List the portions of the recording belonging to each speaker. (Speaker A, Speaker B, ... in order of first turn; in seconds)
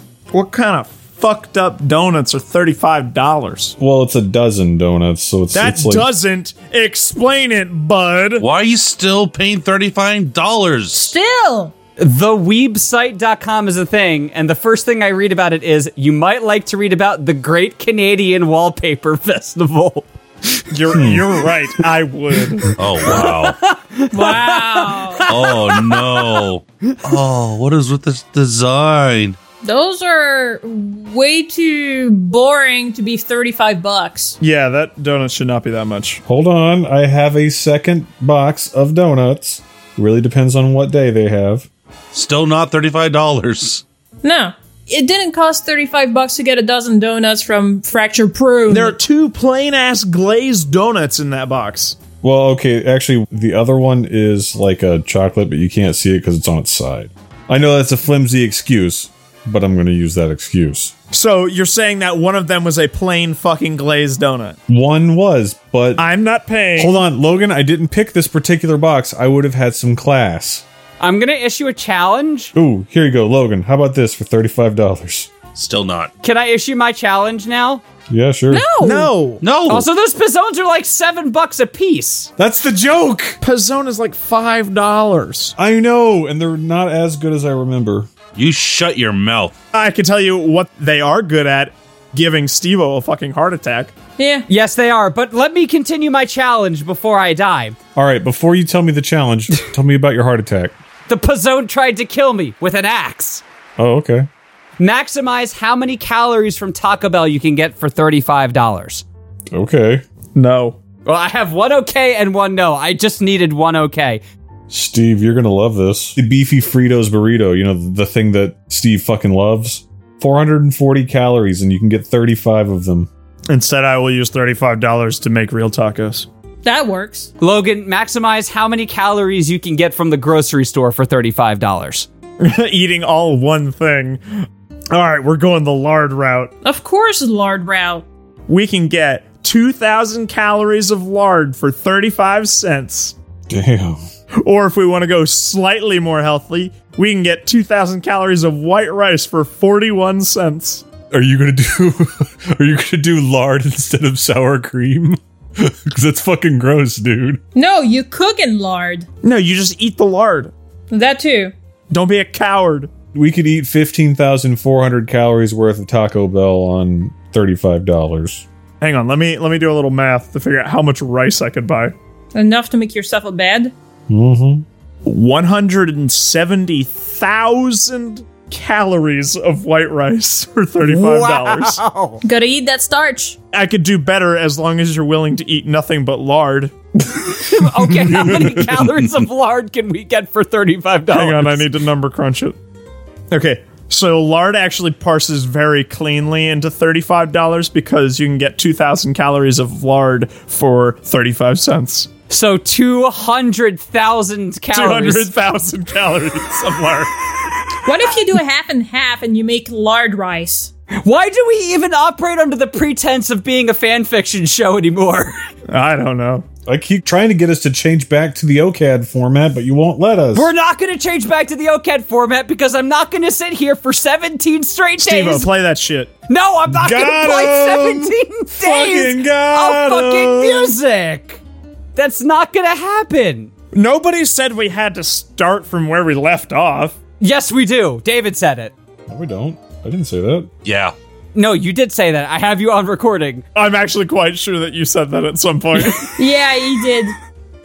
Speaker A: 0.3-3.7, 5.5-8.4, 20.7-22.7, 34.4-36.2, 48.7-52.0, 61.1-64.6, 66.0-67.0, 78.8-79.4, 83.4-85.5, 89.7-93.9, 110.3-110.8, 123.5-126.3, 132.4-134.2, 134.9-136.5, 138.5-143.1, 144.4-150.8, 159.2-160.5, 161.9-162.9, 168.8-171.9, 175.0-181.8, 183.5-186.7, 191.1-192.6, 193.3-202.1, 204.7-207.2, 215.7-216.4, 225.0-226.1, 233.7-237.0, 243.5-246.1
Speaker B: 3.8-6.1, 20.9-21.2, 36.2-41.7, 52.2-60.9, 64.7-66.0, 66.8-70.6, 72.5-75.3, 78.1-78.7, 82.4-83.4, 85.6-88.1, 98.0-100.7, 103.8-104.3, 109.5-110.0, 114.7-123.1, 143.5-144.0, 151.1-157.4, 163.1-168.4, 174.1-174.6, 188.3-188.9, 216.7-220.5, 226.7-230.8, 239.1-240.5
Speaker C: 8.4-11.1, 22.8-23.6, 25.3-29.4, 42.1-43.8, 75.5-76.1, 79.4-79.9, 88.3-89.5, 240.6-240.9
Speaker D: 10.9-11.7, 24.1-25.2, 29.6-34.4, 44.2-49.0, 78.5-79.1, 94.2-94.5, 126.6-127.3, 136.6-138.0, 157.5-159.1, 160.9-161.5, 172.3-173.7, 182.2-183.4, 207.8-210.7, 246.1-247.2
Speaker E: 12.0-20.6, 23.1-26.5, 71.0-72.5, 76.2-77.8, 79.7-82.3, 94.5-97.8, 101.1-103.4, 104.8-109.0, 111.0-114.2, 127.4-132.1, 180.8-182.2, 187.3-191.7, 202.3-205.3, 210.9-215.4, 220.3-225.5, 226.3-231.4, 231.9-233.5, 237.2-238.7, 241.3-243.4